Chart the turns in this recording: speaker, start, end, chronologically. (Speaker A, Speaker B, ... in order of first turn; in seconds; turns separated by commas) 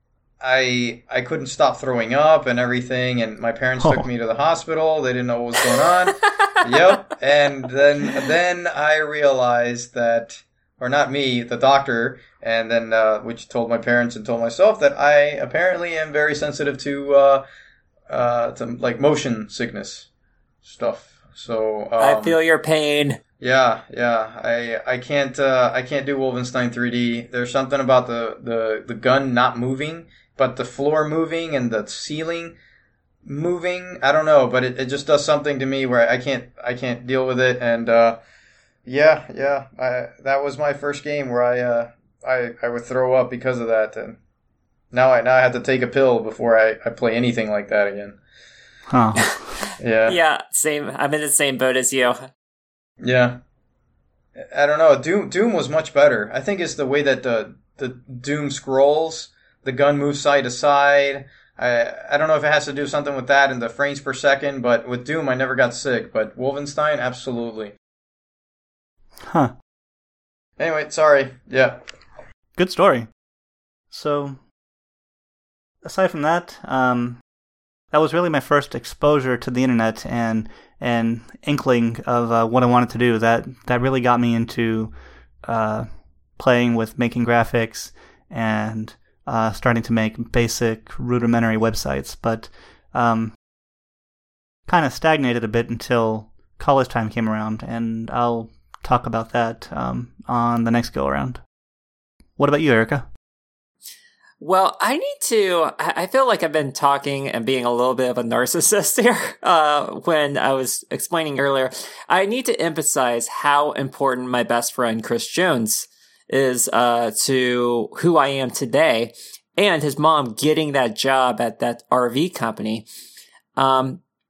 Speaker A: 0.4-17.4, Speaker B: 3.8-4.1, Speaker A: 18.1-20.1, Speaker A: 20.6-22.4, Speaker C: 22.0-23.2, Speaker A: 23.4-32.5, Speaker A: 33.2-38.2, Speaker A: 38.9-44.2, Speaker A: 44.9-48.2, Speaker B: 48.9-49.3, Speaker A: 49.8-50.1, Speaker C: 50.1-52.2, Speaker A: 53.0-53.4, Speaker A: 54.5-67.7, Speaker B: 69.3-69.5, Speaker A: 70.6-71.8, Speaker B: 72.6-73.1, Speaker B: 73.9-74.4, Speaker B: 75.8-77.2, Speaker B: 77.9-84.9, Speaker B: 85.4-93.3, Speaker B: 94.7-101.4, Speaker B: 102.4-103.0, Speaker C: 104.4-122.8, Speaker C: 123.6-124.0